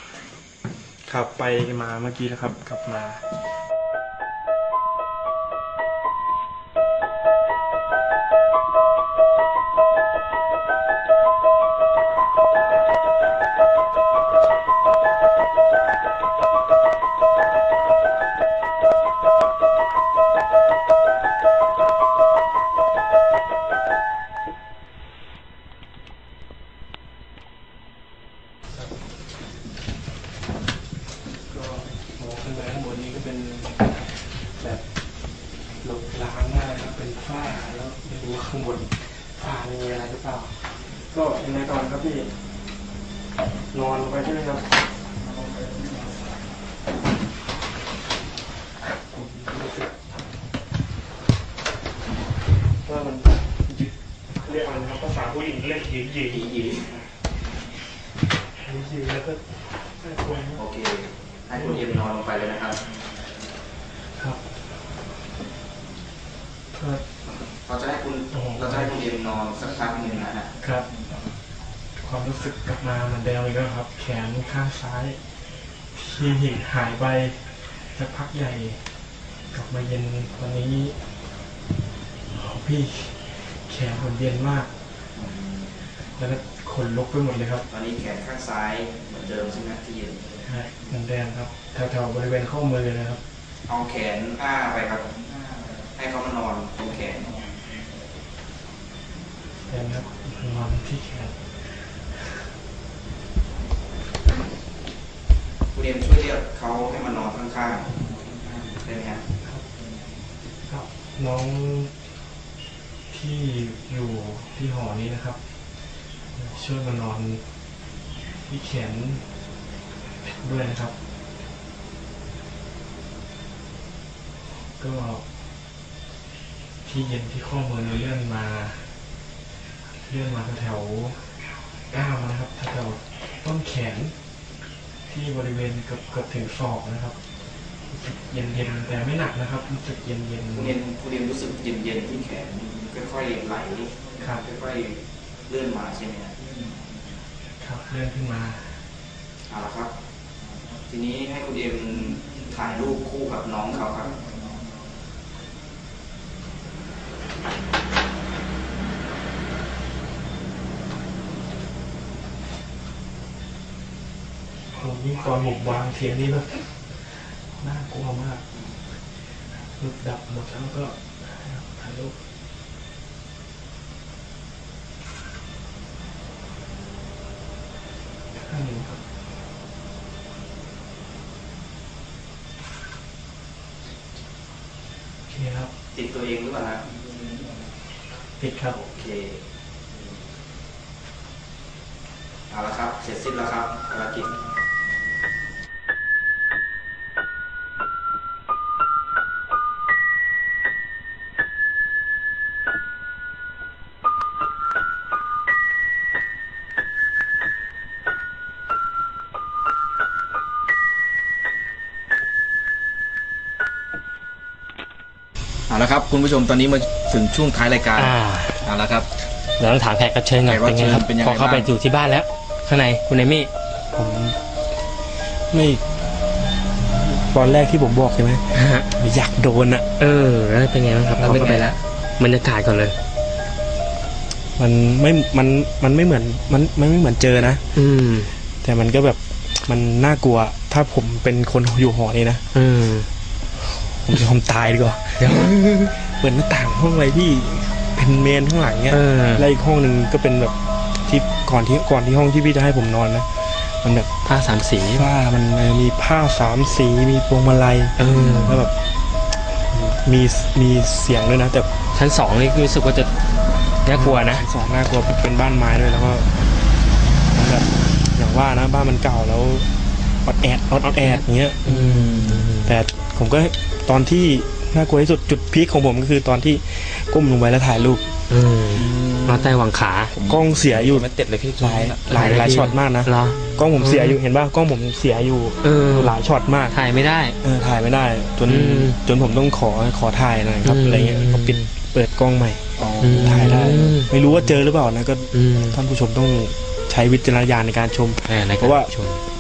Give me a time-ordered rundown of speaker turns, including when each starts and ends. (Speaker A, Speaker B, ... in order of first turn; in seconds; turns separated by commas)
Speaker A: 1.1-3.4, Speaker A: 31.4-34.9, Speaker A: 35.8-42.4, Speaker A: 43.7-44.9, Speaker A: 49.1-49.9, Speaker A: 52.7-56.7, Speaker B: 56.3-57.0, Speaker A: 58.6-60.6, Speaker B: 60.6-62.9, Speaker A: 61.6-62.0, Speaker A: 64.0-65.0, Speaker A: 66.7-67.1, Speaker B: 67.7-70.5, Speaker A: 68.3-69.1, Speaker A: 70.6-71.1, Speaker A: 72.0-79.0, Speaker A: 79.5-81.2, Speaker A: 82.3-84.7, Speaker B: 85.1-85.7, Speaker A: 86.0-87.7, Speaker B: 87.7-90.3, Speaker A: 90.4-93.2, Speaker B: 93.7-95.2, Speaker B: 95.8-97.5, Speaker A: 99.6-102.5, Speaker B: 105.7-108.1, Speaker B: 108.7-109.3, Speaker A: 110.7-112.0, Speaker A: 113.1-115.4, Speaker A: 116.3-117.5, Speaker A: 118.4-119.3, Speaker A: 120.2-121.0, Speaker A: 124.6-125.3, Speaker A: 126.8-129.0, Speaker A: 130.0-131.4, Speaker A: 131.9-134.2, Speaker A: 135.1-137.2, Speaker A: 137.8-140.8, Speaker B: 140.5-146.4, Speaker A: 144.2-144.5, Speaker A: 147.6-148.9, Speaker B: 149.5-149.9, Speaker B: 150.8-154.3, Speaker A: 164.7-168.5, Speaker A: 169.2-172.2, Speaker A: 178.3-179.1, Speaker A: 185.3-185.7, Speaker B: 185.9-186.9, Speaker A: 188.4-188.9, Speaker B: 188.9-189.5, Speaker B: 192.5-194.4, Speaker B: 215.7-219.1, Speaker C: 218.0-218.7, Speaker C: 219.6-223.5, Speaker B: 220.4-221.7, Speaker A: 223.9-224.4, Speaker A: 225.2-226.2, Speaker A: 226.8-229.9, Speaker C: 228.5-228.9, Speaker C: 230.0-233.0, Speaker A: 231.2-231.7, Speaker B: 231.2-231.8, Speaker A: 234.6-237.7, Speaker C: 237.8-238.3, Speaker A: 238.5-242.4, Speaker C: 242.5-243.1, Speaker A: 243.6-254.1, Speaker C: 245.2-245.9, Speaker C: 248.9-249.5, Speaker C: 254.2-255.1, Speaker A: 254.9-258.8, Speaker C: 258.0-258.7, Speaker A: 259.6-261.7, Speaker C: 261.9-263.1, Speaker C: 263.8-264.4, Speaker A: 263.9-266.5, Speaker A: 267.2-269.7, Speaker A: 270.2-271.8, Speaker C: 271.6-272.8, Speaker B: 271.9-272.4, Speaker A: 272.6-278.2, Speaker C: 278.3-280.1, Speaker B: 278.8-279.6, Speaker B: 280.1-282.1, Speaker A: 280.2-281.1, Speaker C: 281.6-284.2, Speaker A: 281.6-286.8, Speaker C: 285.6-286.1, Speaker C: 286.7-287.4, Speaker A: 287.4-298.9, Speaker C: 288.5-289.0, Speaker C: 290.6-291.7, Speaker B: 292.8-293.6, Speaker C: 293.0-294.6, Speaker C: 295.3-295.8, Speaker C: 298.3-299.2